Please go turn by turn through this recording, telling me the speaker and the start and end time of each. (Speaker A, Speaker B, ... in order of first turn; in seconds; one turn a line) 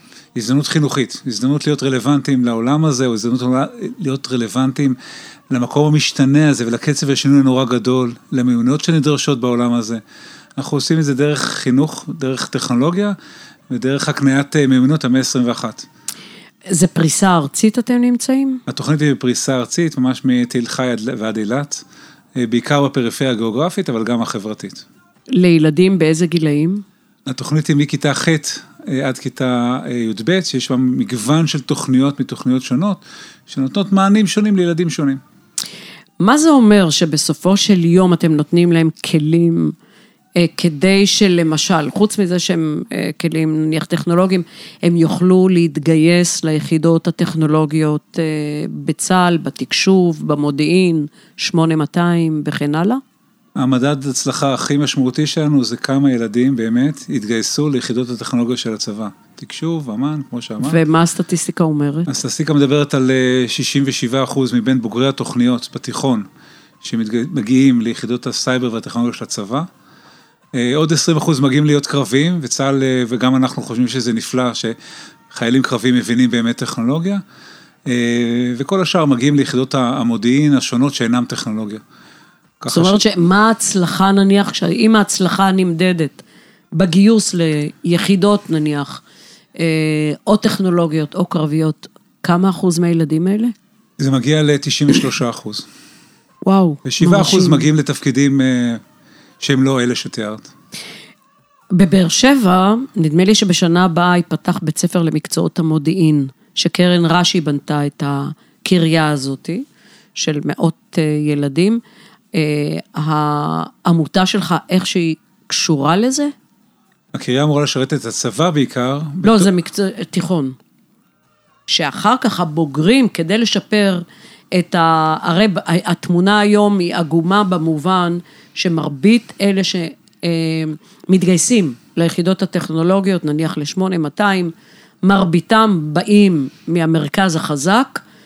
Speaker A: 0.3-5.0
Speaker A: 5.5-10.0
Speaker A: 10.6-13.2
Speaker A: 13.7-15.8
Speaker B: 16.7-18.6
Speaker A: 18.7-21.8
Speaker A: 22.4-24.8
Speaker B: 25.3-26.8
Speaker A: 27.3-35.2
Speaker B: 36.2-39.7
Speaker B: 40.4-53.0
Speaker A: 53.6-60.8
Speaker B: 60.6-62.1
Speaker A: 62.1-66.3
Speaker A: 66.8-69.7
Speaker A: 70.5-74.8
Speaker A: 75.3-77.2
Speaker A: 77.8-81.8
Speaker A: 82.6-83.0
Speaker B: 82.7-86.2
Speaker B: 86.7-89.0
Speaker B: 89.6-93.5
Speaker A: 94.0-95.7
Speaker B: 96.4-97.7
Speaker A: 96.8-98.8
Speaker A: 99.4-100.5
Speaker B: 101.7-109.6
Speaker B: 110.2-111.8
Speaker B: 112.3-116.3
Speaker A: 117.1-119.5
Speaker B: 119.2-120.5
Speaker B: 121.7-138.0